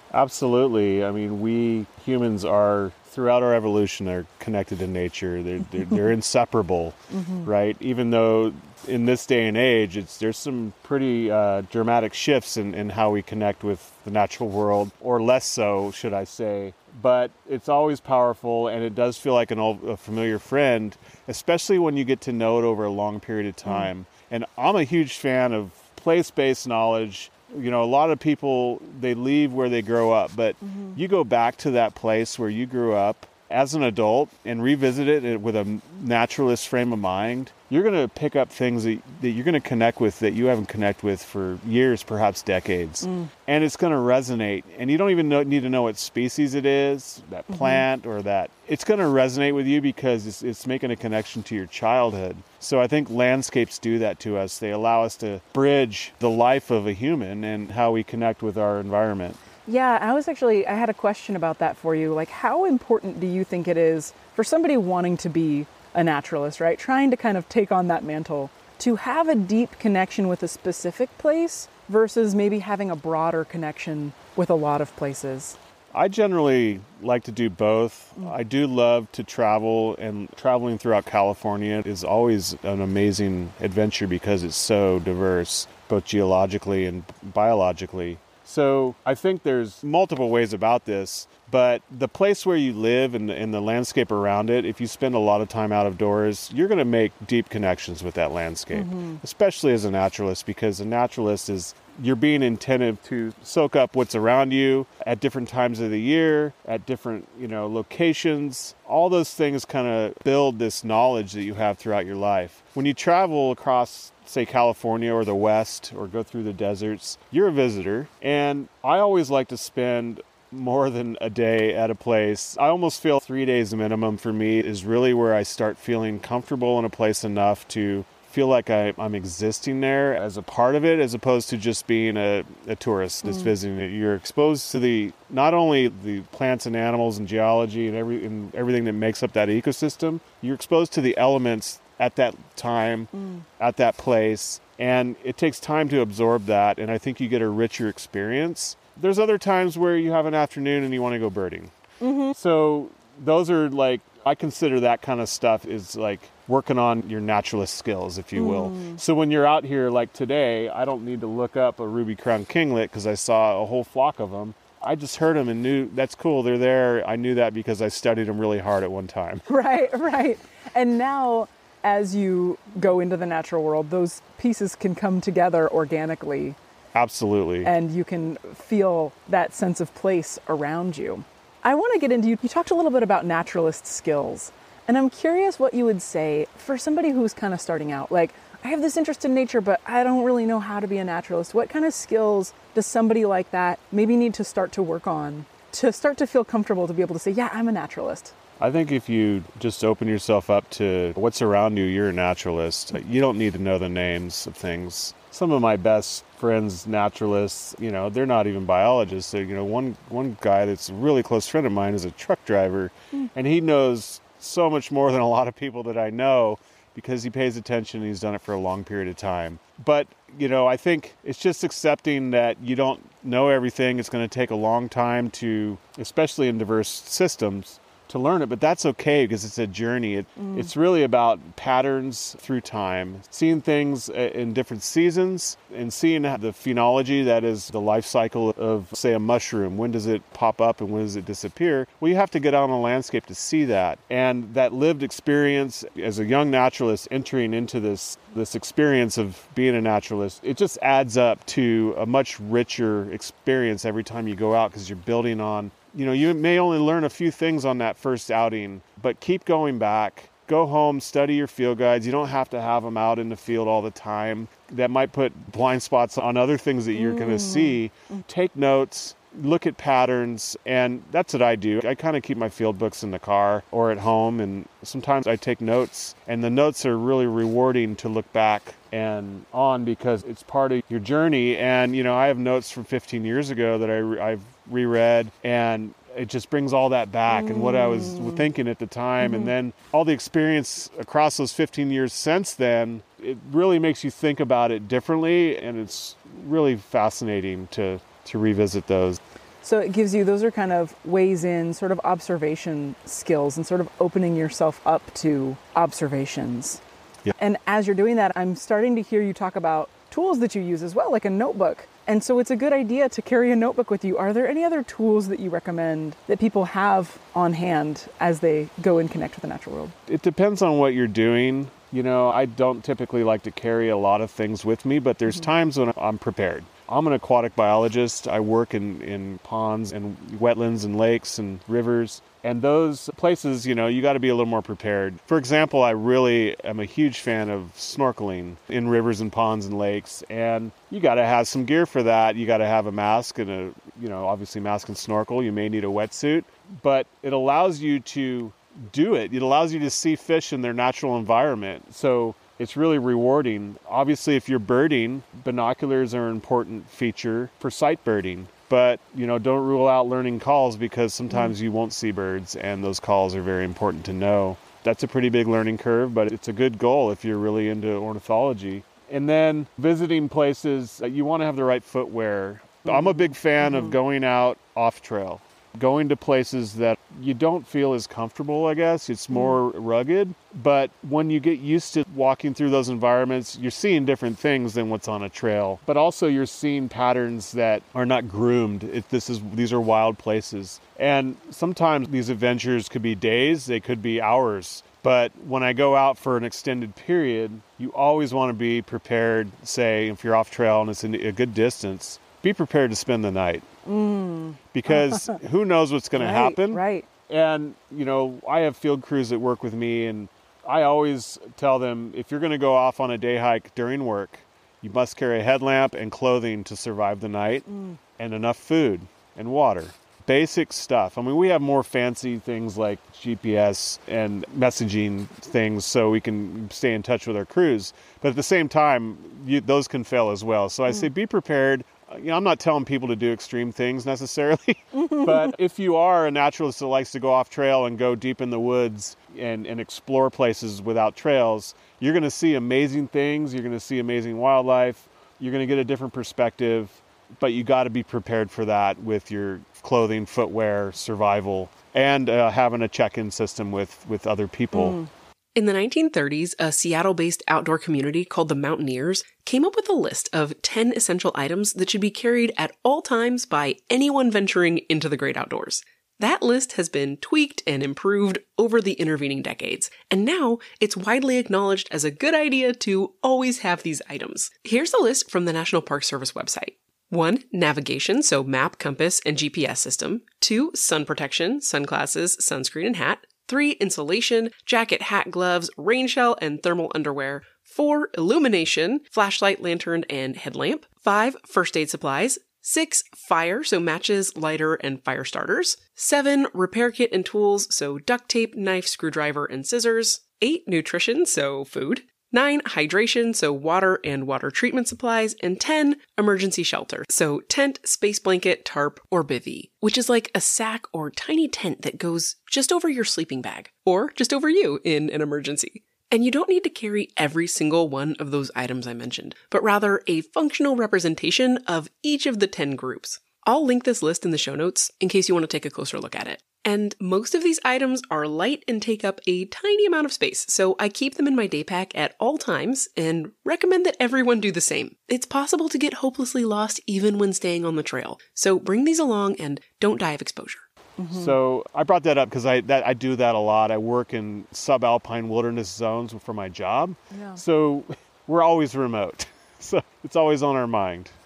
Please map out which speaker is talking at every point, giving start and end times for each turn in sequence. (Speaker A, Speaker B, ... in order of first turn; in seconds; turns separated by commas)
Speaker A: 0.1-59.4, Speaker B: 7.1-7.5, Speaker B: 23.6-23.9, Speaker B: 30.6-31.0, Speaker B: 43.0-43.3, Speaker B: 47.5-47.9, Speaker B: 59.6-75.6, Speaker A: 75.9-151.7, Speaker B: 98.7-99.2, Speaker B: 133.2-133.5, Speaker B: 143.1-143.4, Speaker B: 152.0-152.4, Speaker A: 152.3-169.5, Speaker B: 158.3-159.0, Speaker B: 169.5-176.6, Speaker A: 176.9-177.7, Speaker B: 177.6-198.3, Speaker A: 198.6-299.2, Speaker B: 230.4-230.7, Speaker B: 266.9-268.2, Speaker B: 287.3-288.5, Speaker B: 289.2-289.5, Speaker B: 299.6-306.8, Speaker B: 307.4-319.9, Speaker A: 320.1-403.6, Speaker B: 372.9-373.9, Speaker B: 379.3-379.6, Speaker B: 403.9-405.4, Speaker A: 404.7-417.7, Speaker B: 406.1-407.1, Speaker B: 417.7-418.0, Speaker A: 418.2-455.0, Speaker B: 434.9-435.5, Speaker B: 454.7-455.1, Speaker C: 455.6-540.6, Speaker B: 541.0-541.4, Speaker A: 541.1-551.1, Speaker B: 547.1-547.4